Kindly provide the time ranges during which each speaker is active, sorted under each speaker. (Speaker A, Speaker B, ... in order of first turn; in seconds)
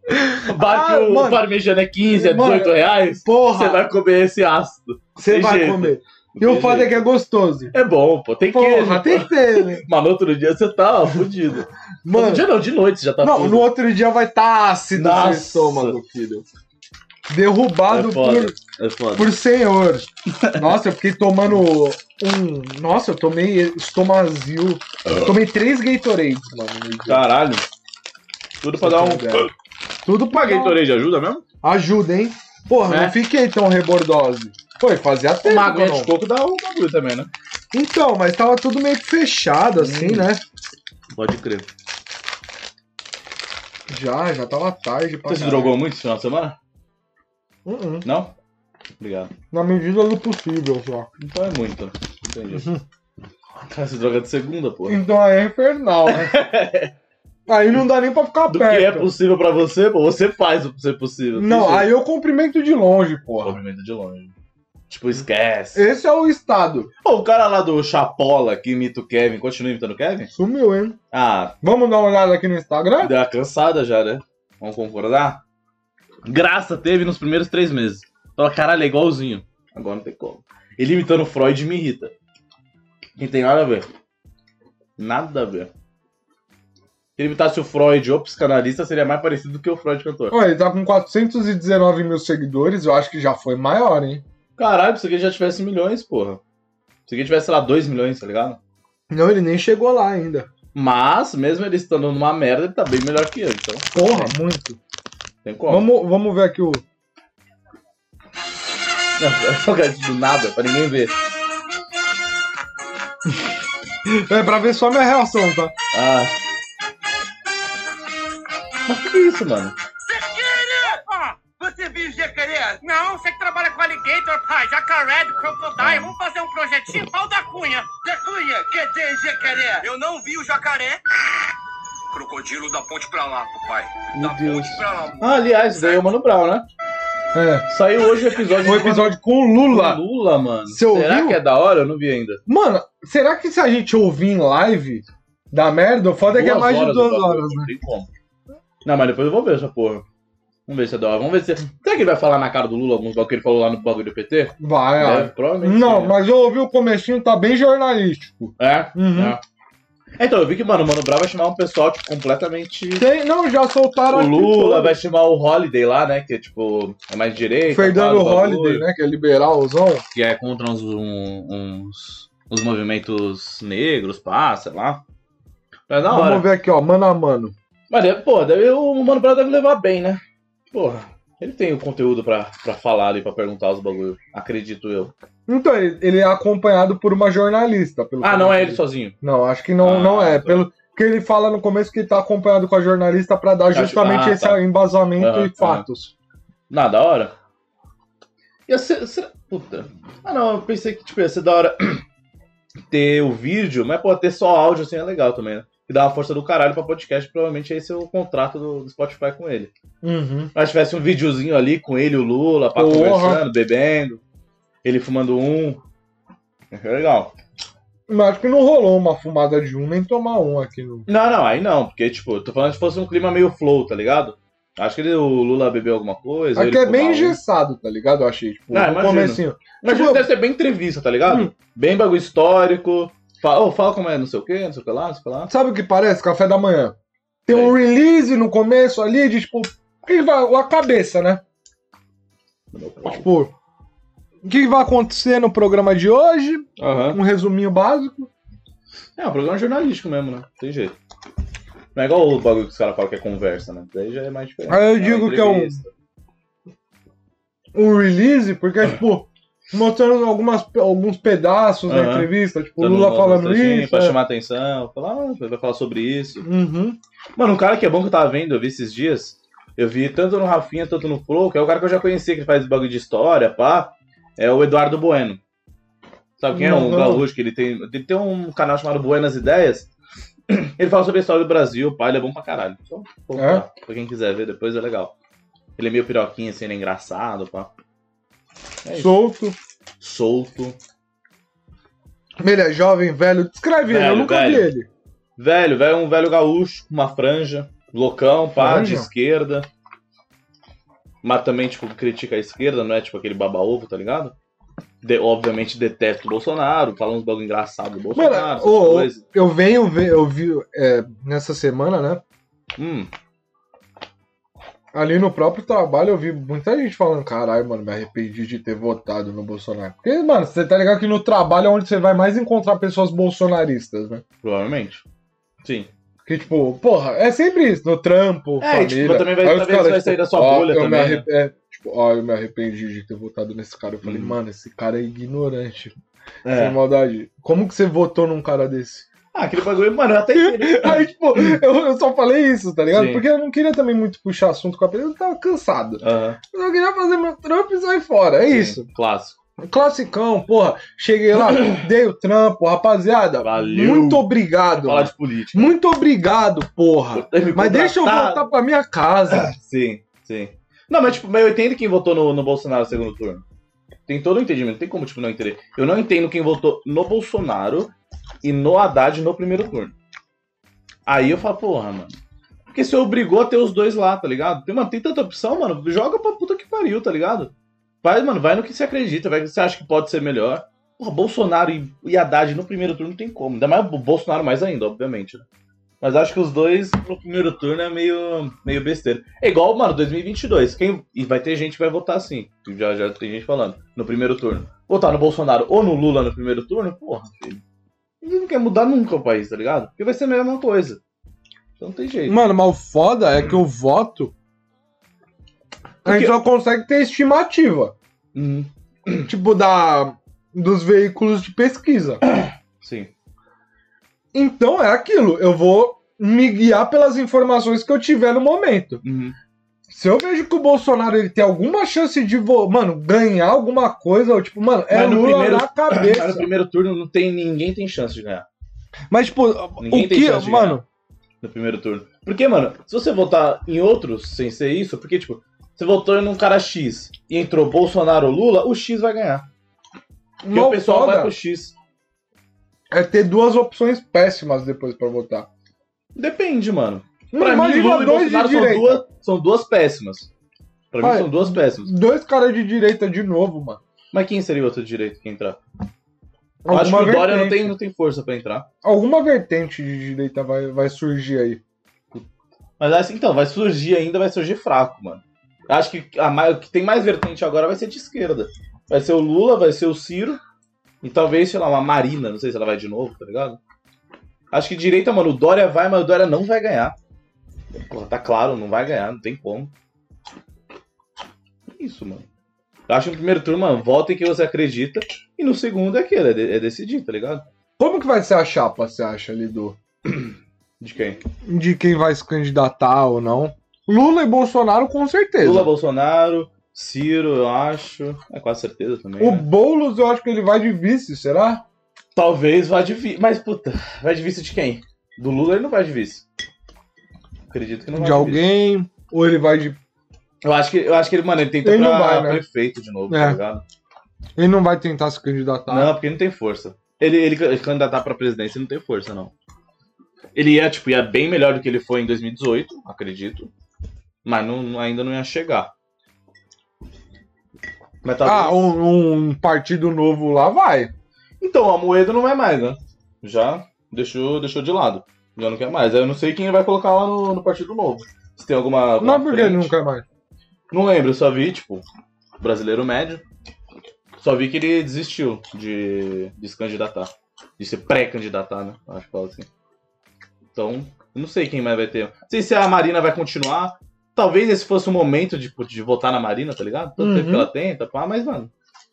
Speaker A: 0.1-1.4, 2.1-3.9, 5.2-7.7, 8.5-9.8, 12.0-12.4, 13.2-16.4, 17.3-18.5, 19.1-27.3, 28.8-29.5, 30.0-30.8, 31.6-36.1, 37.7-40.4, 43.9-45.8, 47.6-48.0, 49.5-51.1, 54.9-56.3, 57.5-59.1, 61.4-63.6, 65.7-66.9, 70.3-71.0, 71.6-73.1, 90.3-94.2, 99.1-100.5, 103.9-104.8, 105.7-106.8, 114.0-115.7, 137.3-137.7, 138.6-140.0, 140.7-141.4, 142.5-147.7, 154.6-159.4, 163.0-165.0, 167.7-170.0, 176.1-177.5, 185.5-196.1, 210.0-210.5, 212.8-213.4, 218.1-221.1, 226.6-230.3, 235.5-236.9, 237.5-241.4, 243.0-243.5, 244.4-248.3, 254.7-255.8, 257.7-264.1, 266.4-267.0, 276.5-277.3, 283.3-283.6, 288.9-289.6, 292.4-294.9, 298.6-299.1, 308.1-312.2, 314.9-324.2, 326.2-335.9, 336.5-339.1, 340.3-348.8, 349.6-359.5, 402.3-404.3, 406.0-407.9, 409.3-412.2, 414.3-419.0, 419.9-426.5, 429.1-430.8, 440.4-441.3, 442.9-445.5, 447.3-449.0, 451.0-453.8, 456.6-457.7, 458.8-461.6, 487.8-489.8, 491.4-495.7, 499.2-501.6, 507.9-509.8, 511.6-512.4, 513.1-513.4, 514.4-515.9, 528.2-530.9, 539.0-540.0, 557.0-557.5
Speaker B: 0.5-7.0, 7.7-13.7, 14.9-16.0, 17.9-19.3, 20.4-20.7, 25.1-25.3, 27.1-27.6, 28.6-29.5, 30.3-31.4, 32.9-33.1, 35.4-37.3, 39.8-40.3, 41.1-41.6, 45.3-46.5, 48.0-48.3, 49.0-49.3, 51.2-52.8, 53.6-55.0, 56.1-56.9, 58.5-61.9, 63.4-64.3, 64.9-65.9, 67.0-70.3, 71.1-71.5, 73.0-75.4, 76.2-82.1, 83.2-83.9, 85.0-85.7, 87.2-90.3, 94.6-96.4, 97.1-98.6, 100.7-104.3, 105.4-105.9, 109.2-111.1, 115.9-116.3, 118.9-119.7, 125.8-126.1, 134.1-136.6, 137.7-142.4, 146.2-148.1, 148.8-150.0, 150.7-156.2, 158.6-159.4, 160.2-163.1, 164.1-168.8, 170.1-175.0, 175.9-176.4, 177.9-185.1, 188.2-189.2, 189.8-190.7, 193.7-194.6, 195.2-195.8, 196.7-197.3, 198.7-202.0, 202.9-209.7, 210.5-214.2, 214.8-215.8, 216.7-217.3, 221.1-227.4, 228.7-235.5, 237.5-237.8, 242.7-243.3, 246.8-247.2, 249.2-250.9, 251.9-255.9, 261.9-266.4, 267.4-275.4, 276.4-279.9, 280.5-285.1, 285.8-287.7, 288.8-289.1, 290.0-290.8, 293.8-294.7, 295.4-299.6, 301.2-304.3, 305.0-309.2, 312.8-313.1, 324.4-325.0, 325.6-325.9, 328.6-331.2, 334.0-334.4, 336.4-336.8, 339.3-341.6, 342.9-343.2, 346.0-346.4, 348.5-349.4, 353.4-355.7, 357.1-358.5, 359.3-363.4, 364.1-367.9, 368.4-369.9, 371.1-372.1, 372.7-377.5, 378.0-385.4, 386.0-397.6, 398.2-401.0, 401.8-402.4, 406.0-406.4, 408.3-409.3, 412.2-413.1, 419.0-419.3, 424.9-428.4, 429.8-430.8, 431.4-439.4, 440.5-441.7, 446.1-450.3, 450.9-451.9, 454.1-455.6, 456.7-458.7, 462.8-470.4, 471.0-473.6, 474.5-476.9, 477.7-479.7, 481.7-482.3, 482.9-487.4, 490.1-491.2, 495.4-499.4, 502.1-506.2, 507.5-508.4, 510.4-513.6, 515.7-519.3, 520.3-523.5, 524.2-525.7, 528.0-528.7, 531.4-539.7, 540.7-541.8, 542.4-543.2, 544.2-549.5, 550.5-558.5
Speaker C: 120.0-131.0, 132.1-136.0